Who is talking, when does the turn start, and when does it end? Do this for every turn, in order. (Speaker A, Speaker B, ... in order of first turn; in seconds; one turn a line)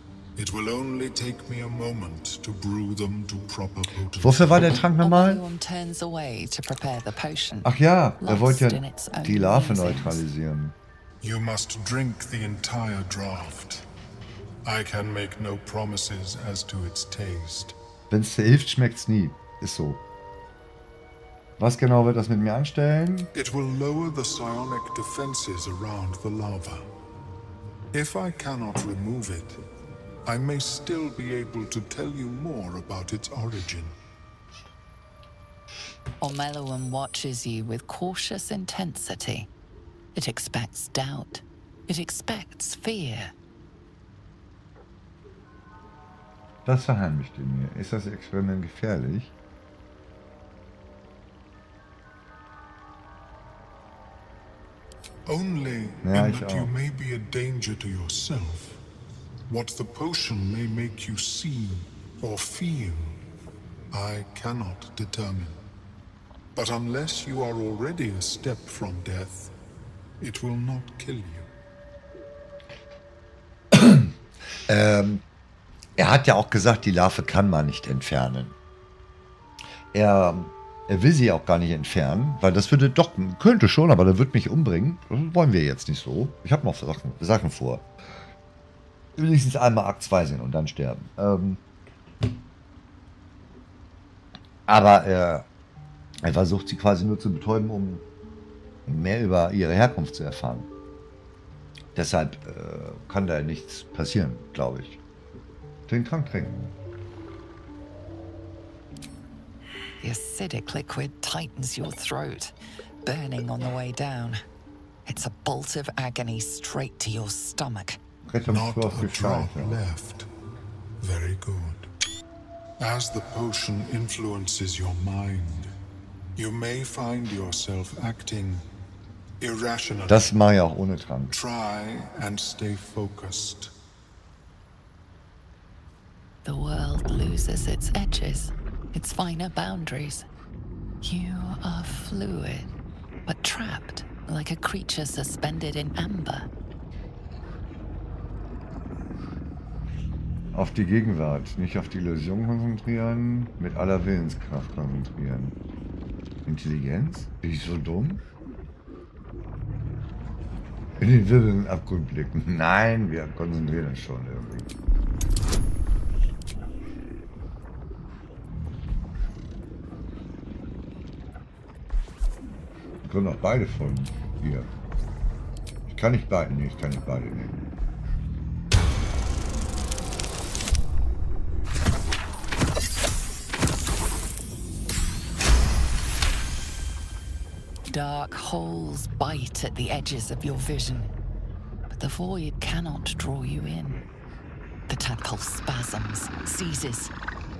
Speaker A: 0.3-4.8
Speaker B: 4.2-5.4
Speaker C: 4.9-10.2
Speaker B: 7.6-10.8
Speaker A: 11.2-13.8
Speaker A: 14.6-17.7
Speaker B: 18.1-20.0
Speaker B: 21.6-23.3
Speaker A: 23.3-26.8
Speaker A: 27.9-29.6
Speaker A: 30.2-33.9
Speaker C: 36.2-39.5
Speaker C: 40.1-43.3
Speaker B: 46.6-49.3
Speaker A: 55.3-58.8
Speaker B: 56.0-56.7
Speaker A: 59.5-63.2
Speaker A: 63.9-65.6
Speaker A: 66.5-69.5
Speaker A: 70.2-71.5
Speaker B: 73.7-74.1
Speaker B: 74.7-75.2
Speaker B: 76.0-78.5
Speaker B: 79.9-87.8
Speaker B: 89.2-91.6
Speaker B: 94.7-95.5
Speaker B: 96.2-98.0
Speaker B: 98.8-100.7
Speaker B: 101.9-105.0
Speaker B: 105.9-106.7
Speaker C: 110.0-114.4
Speaker C: 115.0-118.0
Speaker B: 118.3-119.8
Speaker A: 118.5-120.3
Speaker A: 121.0-121.9
Speaker A: 122.8-125.7
Speaker A: 126.3-128.6
Speaker A: 129.4-130.3
Speaker B: 130.1-131.4
Speaker A: 131.3-133.7
Speaker C: 136.4-140.2
Speaker C: 141.0-142.7
Speaker C: 143.2-146.5
Speaker B: 150.5-155.6
Speaker B: 156.4-158.2
Speaker B: 161.0-164.7
Speaker B: 173.0-174.7
Speaker B: 175.9-177.6
Speaker C: 187.9-191.1
Speaker C: 191.9-194.1
Speaker C: 194.9-197.1